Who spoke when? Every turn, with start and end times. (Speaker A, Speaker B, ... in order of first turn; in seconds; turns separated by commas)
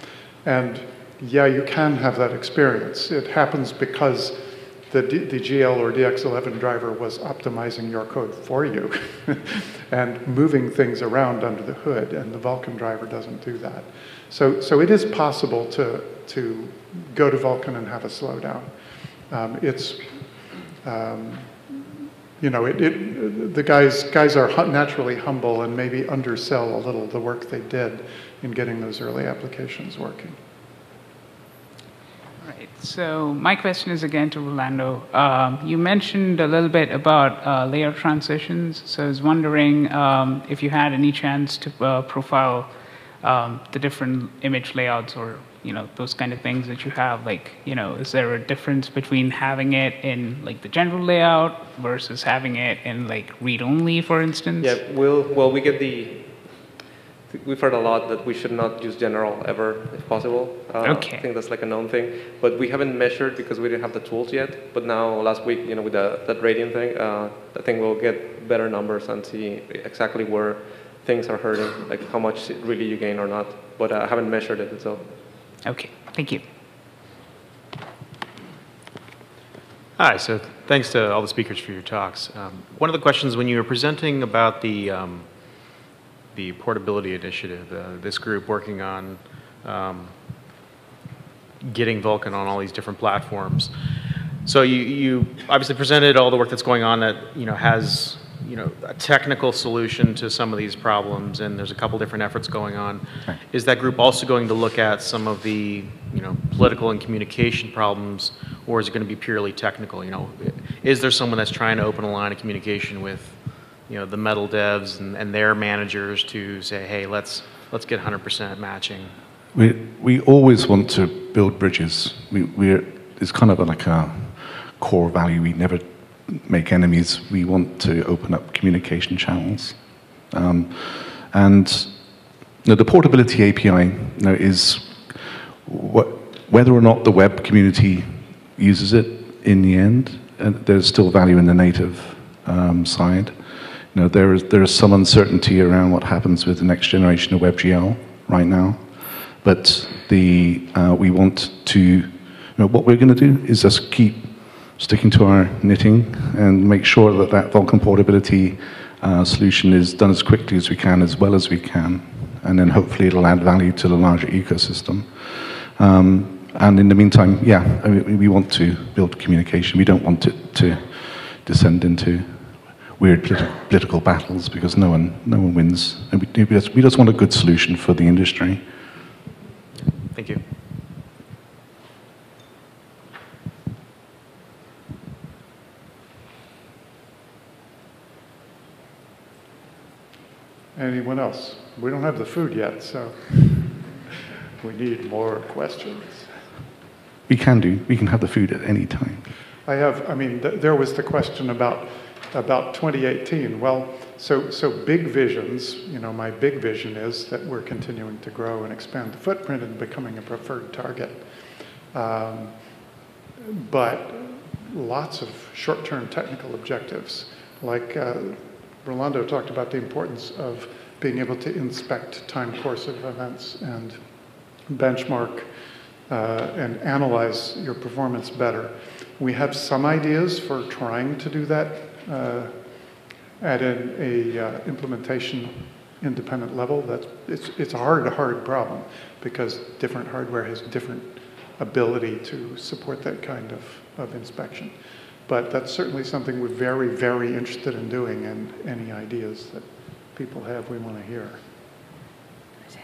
Speaker A: 0.4-18.7, Speaker A: 19.3-20.2, Speaker A: 20.8-21.8, Speaker A: 22.4-30.4, Speaker B: 32.4-54.8, Speaker C: 54.6-56.7, Speaker C: 57.3-75.1, Speaker B: 60.8-61.2, Speaker B: 75.6-76.4, Speaker D: 80.0-85.3, Speaker D: 86.3-90.2, Speaker D: 91.6-93.7, Speaker D: 94.4-119.2, Speaker E: 119.5-132.1, Speaker E: 132.6-178.6, Speaker D: 179.9-180.4, Speaker A: 190.7-194.0, Speaker A: 194.6-196.3, Speaker E: 197.3-199.3, Speaker A: 199.7-211.3, Speaker A: 211.9-212.6, Speaker A: 213.4-224.0, Speaker A: 224.7-225.5, Speaker A: 226.1-232.5, Speaker A: 233.4-244.7, Speaker A: 245.3-251.4